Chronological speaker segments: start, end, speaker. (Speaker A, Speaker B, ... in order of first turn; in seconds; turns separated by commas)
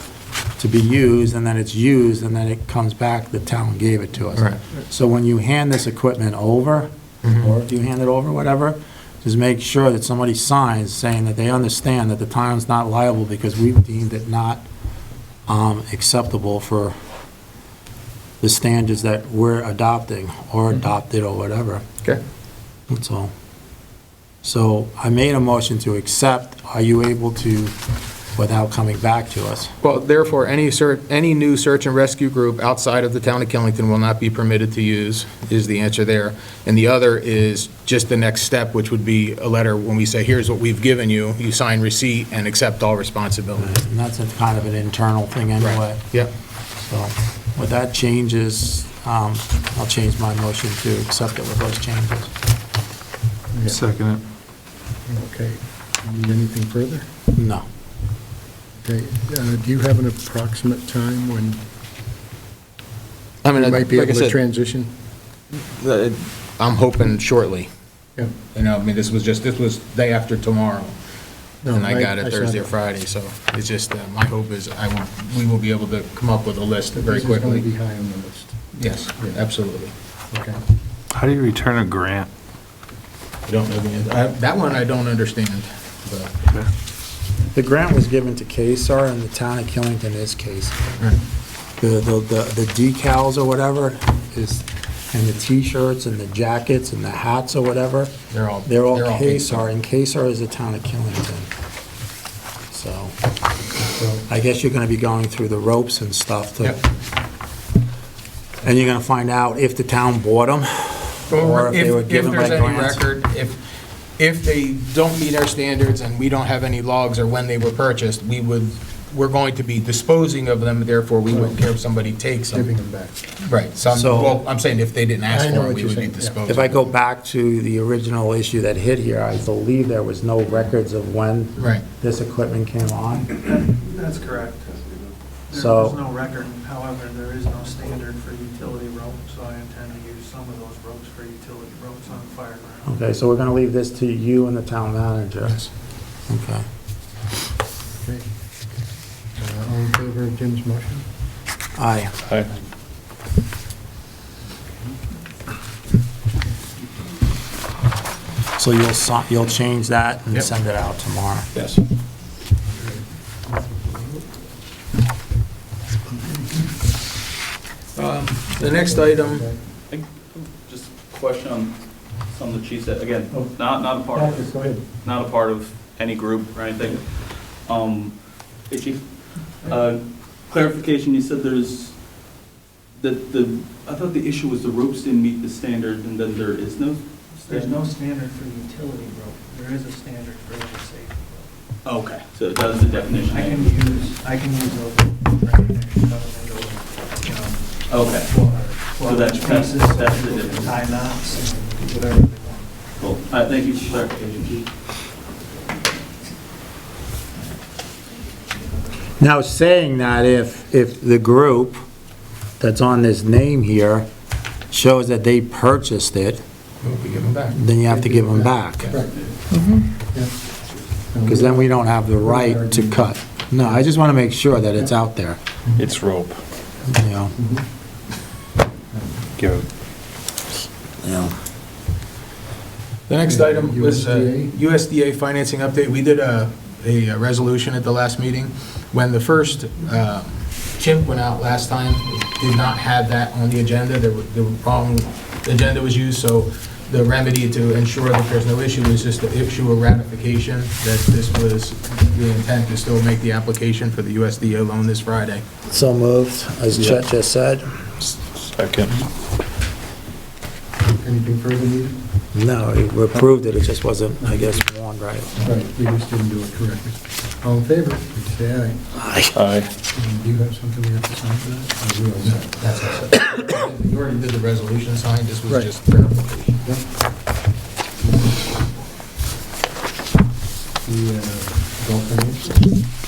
Speaker A: 0.6-14.7, Speaker B: 7.2-7.5, Speaker A: 15.5-16.9, Speaker A: 18.4-21.9, Speaker A: 22.9-23.3, Speaker A: 24.4-27.8, Speaker A: 28.4-29.7, Speaker B: 29.8-43.7, Speaker A: 43.6-46.1, Speaker B: 45.6-46.3, Speaker A: 46.8-52.3, Speaker C: 53.5-53.8, Speaker D: 53.7-54.2, Speaker C: 55.1-57.1, Speaker A: 57.3-57.6, Speaker C: 58.8-61.6, Speaker B: 63.4-64.4, Speaker C: 63.5-64.9, Speaker B: 65.6-67.7, Speaker B: 68.5-71.0, Speaker C: 71.6-72.7, Speaker B: 71.7-77.7, Speaker C: 76.9-78.5, Speaker B: 78.8-79.9, Speaker C: 80.3-80.6, Speaker D: 81.1-82.3, Speaker B: 83.5-86.3, Speaker A: 87.5-90.8, Speaker A: 91.8-98.1, Speaker B: 98.3-99.7, Speaker A: 98.7-101.5, Speaker A: 102.7-103.2, Speaker C: 103.8-104.2, Speaker A: 104.3-106.8, Speaker A: 108.6-113.0, Speaker B: 111.3-113.6, Speaker B: 114.2-122.7, Speaker C: 121.3-121.7, Speaker C: 122.5-123.2, Speaker B: 123.4-126.9, Speaker A: 123.9-124.4, Speaker C: 125.3-126.4, Speaker A: 126.5-133.3, Speaker B: 131.6-131.8, Speaker E: 133.3-134.8, Speaker E: 135.5-143.1, Speaker A: 135.5-136.0, Speaker A: 142.9-145.7, Speaker A: 146.3-146.7, Speaker C: 149.4-151.1, Speaker A: 151.8-152.1, Speaker A: 158.6-161.5, Speaker D: 161.6-161.8, Speaker C: 162.7-164.2, Speaker B: 168.0-169.5, Speaker C: 168.6-169.6, Speaker F: 169.9-182.0, Speaker C: 174.1-174.8, Speaker F: 183.0-187.8, Speaker E: 187.5-191.5, Speaker F: 191.8-193.7, Speaker E: 192.9-202.7, Speaker F: 197.9-200.8, Speaker F: 203.0-204.7, Speaker A: 209.2-211.8, Speaker A: 212.6-214.1, Speaker A: 214.7-216.4, Speaker B: 216.8-217.6, Speaker A: 217.5-218.9, Speaker C: 217.9-219.4, Speaker D: 219.5-219.9, Speaker C: 221.1-223.8, Speaker A: 221.3-225.4, Speaker D: 225.8-226.4, Speaker A: 226.9-227.3, Speaker C: 227.4-227.7, Speaker C: 228.9-229.3, Speaker D: 229.4-229.7, Speaker A: 231.0-231.3, Speaker B: 233.1-255.4, Speaker C: 233.2-234.6, Speaker A: 255.7-257.7, Speaker D: 256.7-257.0, Speaker D: 258.4-259.0, Speaker C: 260.8-262.0, Speaker A: 262.3-265.4, Speaker C: 264.2-264.6, Speaker C: 265.4-268.8, Speaker A: 269.0-269.3, Speaker D: 269.3-269.7, Speaker C: 269.9-272.6, Speaker B: 272.5-276.6, Speaker C: 278.0-278.4, Speaker C: 280.8-282.7